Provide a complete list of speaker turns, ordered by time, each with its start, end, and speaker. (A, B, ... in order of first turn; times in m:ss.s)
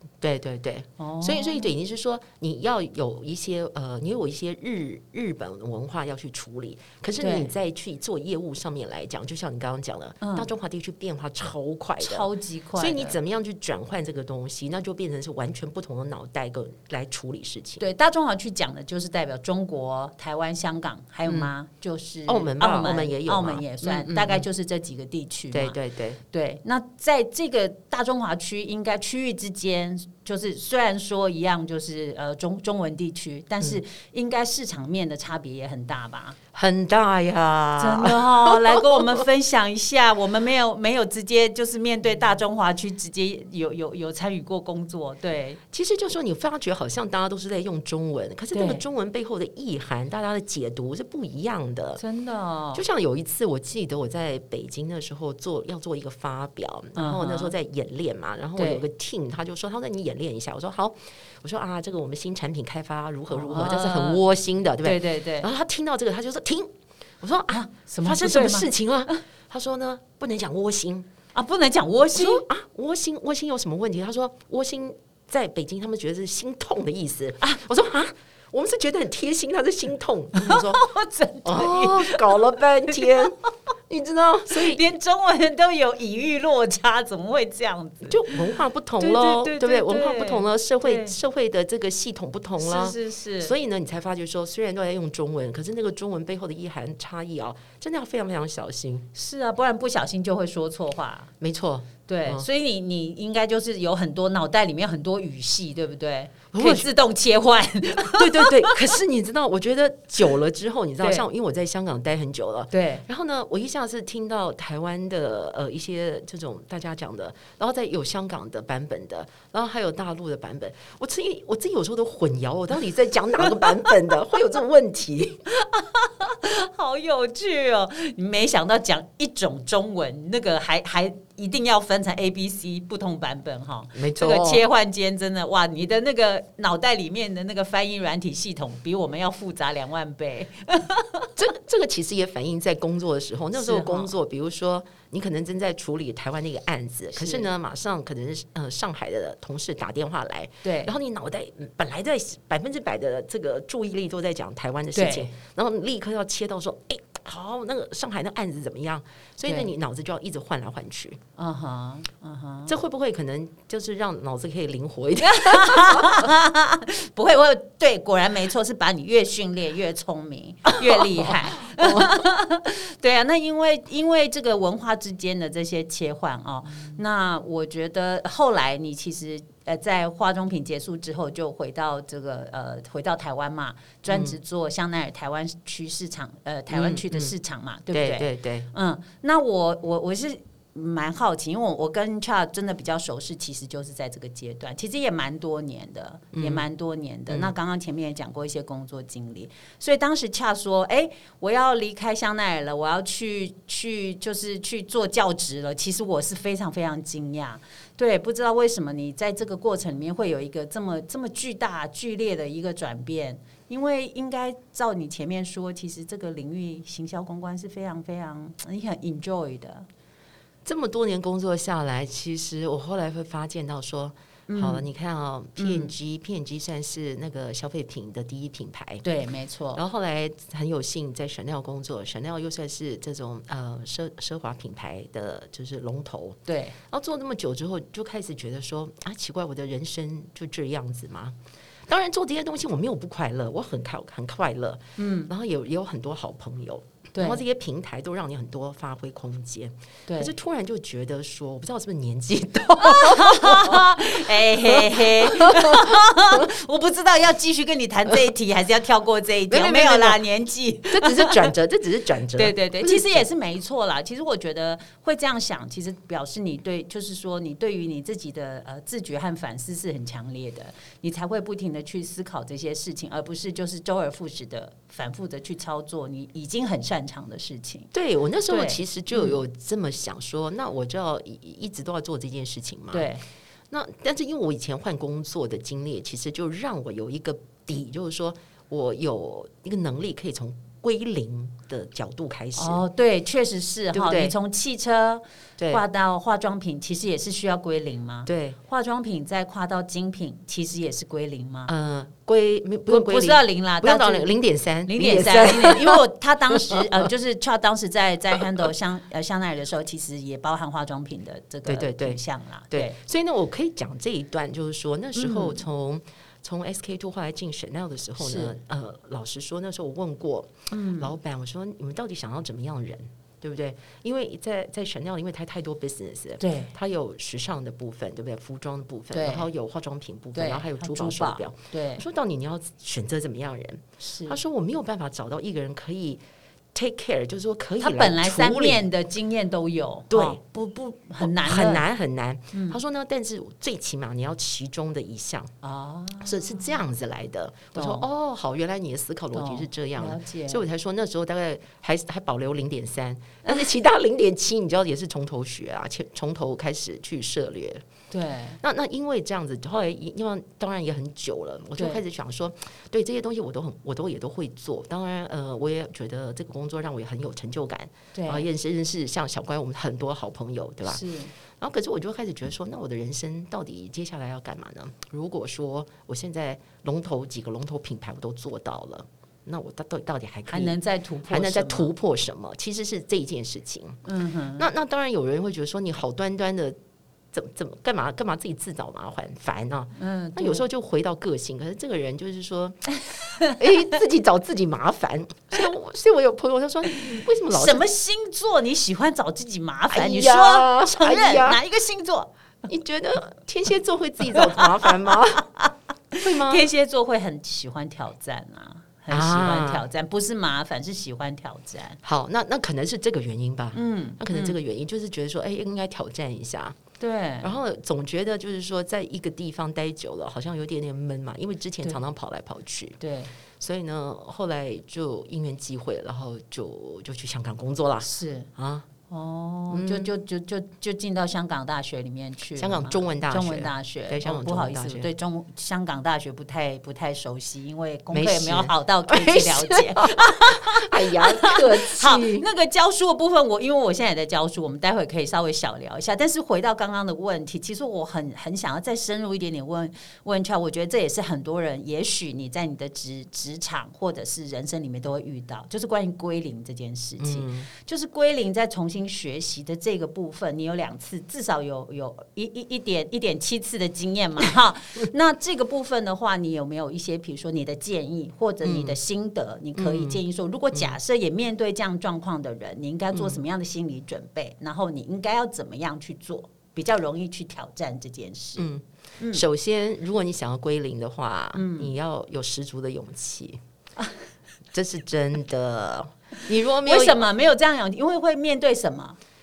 0:00.2-0:17.8 A
0:01.0-0:01.7 B
0:07.2-0:07.5 B
0:10.2-0:10.5 B
0:12.0-0:13.2 B
0:17.8-0:25.8 B
0:21.2-0:21.5 A
0:22.3-0:24.4 A
0:25.5-0:26.2 A
0:26.3-0:36.4 B
0:36.5-0:39.2 A
0:37.8-0:45.6 B
0:45.7-0:52.0 A
0:48.5-0:48.8 B
0:52.0-0:52.8 B
0:52.7-1:06.7 A
0:57.0-0:57.5 B
0:58.6-0:58.8 B
1:03.3-1:04.2 B
1:04.8-1:05.5 B
1:07.2-1:11.1 A
1:07.5-1:09.2 B
1:11.3-1:12.4 B
1:12.1-1:20.8 A
1:20.3-1:23.2 B
1:21.4-1:23.4 A
1:23.9-1:24.8 A
1:24.5-1:31.1 B
1:28.0-1:39.1 A
1:32.6-1:33.5 B
1:39.1-1:41.3 B
1:41.4-1:42.4 A
1:42.0-1:48.8 B
1:46.5-1:46.9 A
1:48.0-2:05.4 A
1:52.7-1:53.0 B
2:05.5-2:21.3 B
2:13.9-2:14.6 A
2:21.4-2:41.2 A
2:23.5-2:24.1 B
2:27.1-2:27.5 B
2:30.6-2:30.9 B
2:34.9-2:35.3 B
2:41.4-2:42.7 B
2:42.7-2:46.3 A
2:45.2-3:39.9 B
2:50.7-2:52.2 A
3:04.1-3:04.4 A
3:06.7-3:07.3 A
3:07.9-3:08.7 A
3:16.3-3:16.6 A
3:17.3-3:17.5 A
3:40.6-3:49.0 A
3:44.5-3:44.9 B
3:45.6-3:45.9 B
3:49.0-3:49.8 B
3:49.7-4:01.4 A
3:56.5-3:56.8 B
4:01.9-4:16.5 A
4:05.0-4:05.3 B
4:07.1-4:07.4 B
4:10.1-4:10.3 B
4:12.8-4:21.5 B
4:19.5-4:20.2 A
4:20.9-4:23.3 A
4:22.4-4:37.9 B
4:37.9-4:43.1 A
4:38.5-4:39.4 B
4:42.9-4:43.2 B
4:43.7-4:52.8 A
4:52.6-5:01.7 B
4:53.9-4:54.3 A
4:58.2-4:58.6 A
5:01.7-5:07.1 A
5:02.9-5:04.3 B
5:04.8-5:13.0 B
5:11.6-5:12.2 A
5:12.7-5:36.2 A
5:15.2-5:15.6 B
5:18.2-5:18.5 B
5:20.7-5:21.1 B
5:26.4-5:26.7 B
5:29.1-5:29.5 B
5:30.3-5:32.0 B
5:34.0-5:34.4 B
5:36.7-5:38.9 A
5:37.8-5:41.8 B
5:40.1-5:40.4 A
5:41.2-5:45.5 A
5:42.5-5:42.8 B
5:45.6-5:46.7 B
5:46.2-5:57.8 A
5:47.7-5:48.0 B
5:49.3-5:50.6 B
5:58.1-5:58.6 B
5:58.6-6:11.0 A
6:01.8-6:02.0 B
6:08.1-6:08.4 B
6:10.9-6:11.3 B
6:11.6-6:24.0 A
6:20.5-6:21.9 B
6:24.0-6:24.7 B
6:24.6-6:26.8 A
6:27.3-6:32.9 A
6:30.0-6:30.6 B
6:33.0-6:33.6 B
6:33.4-6:37.8 A
6:36.9-6:42.3 B
6:39.9-6:41.6 A
6:42.7-6:45.4 A
6:44.3-6:52.0 B
6:46.2-6:46.7 A
6:49.1-6:49.8 A
6:52.0-6:56.8 A
6:53.7-6:54.6 B
6:57.0-6:57.5 B
6:57.4-7:03.0 A
7:03.0-7:03.3 B
7:03.6-7:08.9 A
7:08.0-7:08.5 B
7:09.1-7:58.7 B
7:09.7-7:10.1 A
7:12.6-7:15.1 A
7:18.1-7:22.5 A
7:37.2-7:37.7 A
7:48.6-7:49.0 A
7:49.7-7:50.2 A
7:53.1-7:53.4 A
7:58.6-8:03.6 A
8:01.5-8:01.9 B
8:04.7-8:07.2 A
8:06.8-8:09.2 B